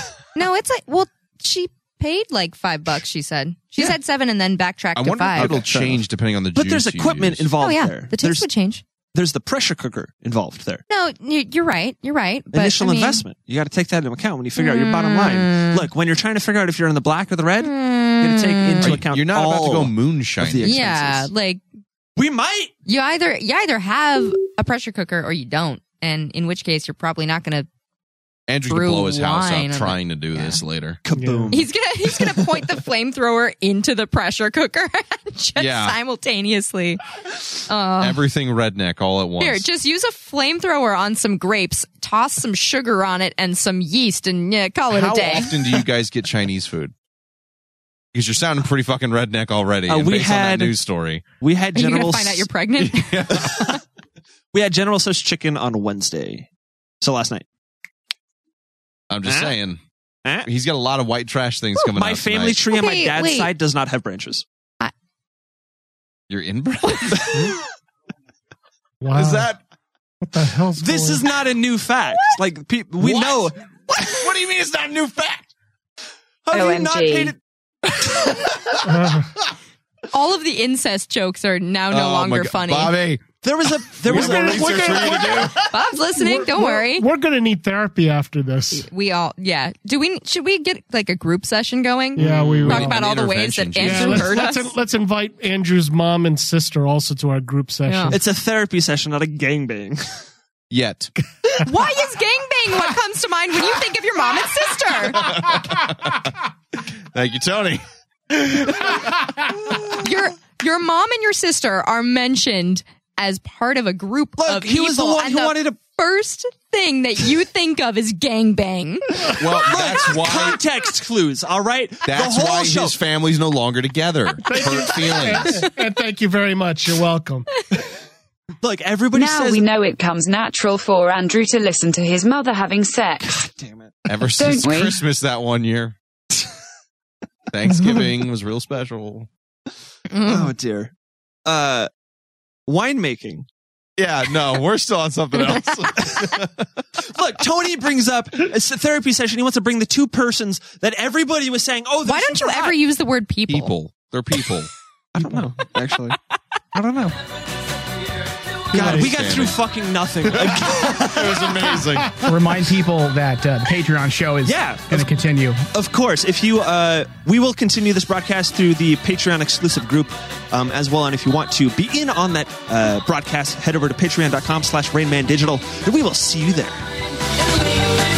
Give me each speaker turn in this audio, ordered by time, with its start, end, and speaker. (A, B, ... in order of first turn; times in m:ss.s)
0:00.4-0:05.5 A
0:04.9-0:07.5 B
0:05.3-0:08.5 C
0:07.6-0:08.8 A
0:09.1-0:10.8 C
0:10.9-0:13.2 A
0:12.5-0:21.2 C
0:14.6-0:15.9 A
0:17.6-0:19.0 A
0:18.8-0:21.3 B
0:20.6-0:21.6 A
0:22.2-0:22.7 C
0:22.8-0:27.7 A
0:28.5-0:31.0 B
0:28.7-0:30.6 A
0:31.0-0:32.6 C
0:31.1-0:31.5 D
0:31.5-0:37.0 A
0:35.6-0:36.0 B
0:37.7-0:38.2 A
0:38.0-0:39.6 B
0:39.4-0:45.5 A
0:44.9-0:46.9 B
0:48.1-0:51.2 B
0:49.9-0:50.8 C
0:51.4-0:52.5 C
0:51.7-0:53.7 A
0:52.8-0:53.6 B
0:53.3-0:53.8 C
0:54.5-0:56.5 C
0:57.0-0:57.4 C
0:59.1-0:59.8 B
0:59.2-0:59.6 C
1:00.4-1:02.7 B
1:01.8-1:04.4 C
1:02.7-1:03.5 A
1:06.3-1:07.5 B
1:09.0-1:09.5 D
1:09.1-1:09.6 B
1:10.2-1:11.3 D
1:10.8-1:13.6 C
1:13.0-1:15.5 B
1:16.4-1:17.4 C
1:16.5-1:17.3 E
1:18.0-1:18.6 B
1:18.8-1:19.3 D
1:20.1-1:23.0 A
1:21.9-1:25.6 B
1:23.4-1:25.6 C
1:24.2-1:25.5 D
1:25.6-1:27.0 A
1:26.1-1:28.8 D
1:28.7-1:34.7 A
1:32.2-1:33.0 D
1:32.2-1:34.4 B
1:33.8-1:38.2 D
1:37.8-1:38.2 A
1:38.1-1:40.2 C
1:40.7-1:41.1 B
1:41.6-1:45.3 A
1:45.1-1:46.3 B
1:47.1-1:49.0 B
1:50.0-1:59.1 A
1:54.4-1:55.8 C
1:59.3-2:00.6 B
1:59.5-2:03.0 C
2:02.0-2:05.6 B
2:04.4-2:07.5 D
2:08.6-2:09.6 C
2:09.1-2:13.4 E
2:13.2-2:14.0 C
2:14.1-2:16.0 B
2:14.4-2:15.0 E
2:17.5-2:19.3 B
2:20.1-2:20.5 A
2:20.2-2:20.9 C
2:21.4-2:21.9 C
2:22.7-2:23.5 C
2:24.0-2:26.6 B
2:27.0-2:32.8 C
2:32.0-2:33.7 A
2:33.5-2:34.7 B
2:35.1-2:36.2 C
2:36.7-2:37.2 C
2:38.7-2:41.4 C
2:38.7-2:39.6 B
2:38.7-2:39.1 D
2:40.2-2:42.2 B
2:42.2-2:45.6 F
2:44.4-2:45.1 C
2:45.7-2:56.8 C